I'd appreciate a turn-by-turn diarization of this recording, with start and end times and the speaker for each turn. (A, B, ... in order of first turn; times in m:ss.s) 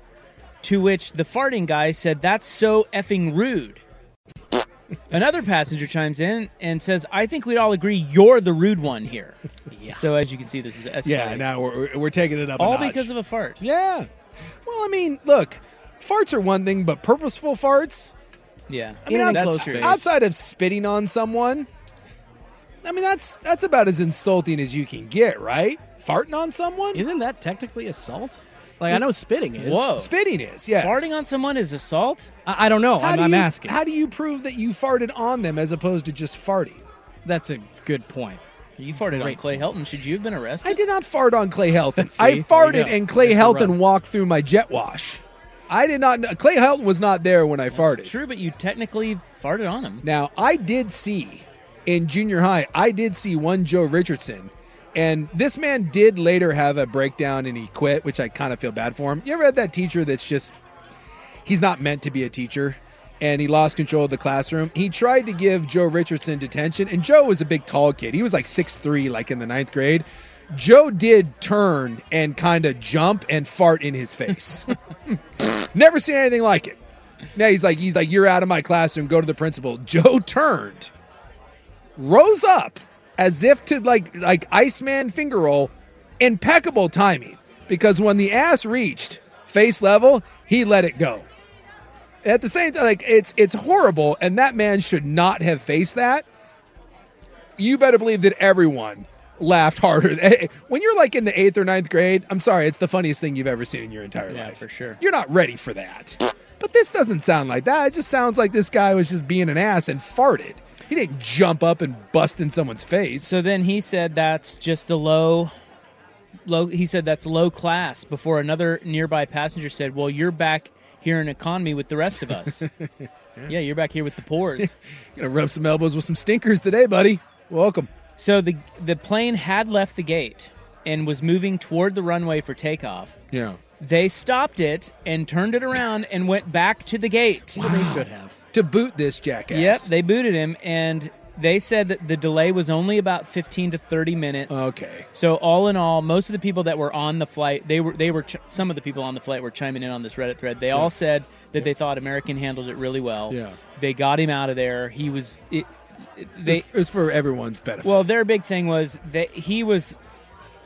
0:00.6-0:03.8 A
0:05.1-0:09.4 A
0:09.7-0:10.0 B
0:10.0-0:11.4 A
0:11.0-0:13.1 C
0:12.6-0:13.6 A
0:13.6-0:14.1 C
0:14.6-0:18.1 C
0:18.7-0:20.0 A
0:19.1-0:20.1 B
0:19.1-0:21.7 C
0:22.8-0:27.0 C
0:26.9-0:29.9 B
0:29.6-0:30.1 A
0:29.9-0:31.1 C
0:30.8-0:32.3 A
0:32.4-0:33.8 B
0:33.0-0:36.8 C
0:37.2-0:38.4 B
0:38.8-0:40.8 A
0:39.0-0:39.6 B
0:40.6-0:48.1 C
0:42.0-0:43.8 B
0:47.7-0:50.0 A
0:50.0-1:00.5 C
1:01.4-1:14.7 C
1:15.4-1:16.8 C
1:17.3-1:20.9 C
1:22.0-1:31.3 C
1:32.2-1:36.2 C
1:37.6-1:53.4 C
1:44.3-1:45.0 A
1:53.2-1:55.5 A
1:56.4-2:02.6 A
2:03.5-2:04.7 A
2:04.6-2:07.9 C
2:08.2-2:13.1 A
2:13.3-2:13.6 C
2:13.8-2:17.7 A
2:17.6-2:19.9 C
2:17.6-2:18.3 B
2:19.5-2:36.7 A
2:24.5-2:25.1 C
2:33.3-2:33.6 C
2:36.4-2:38.0 C
2:37.8-2:40.0 A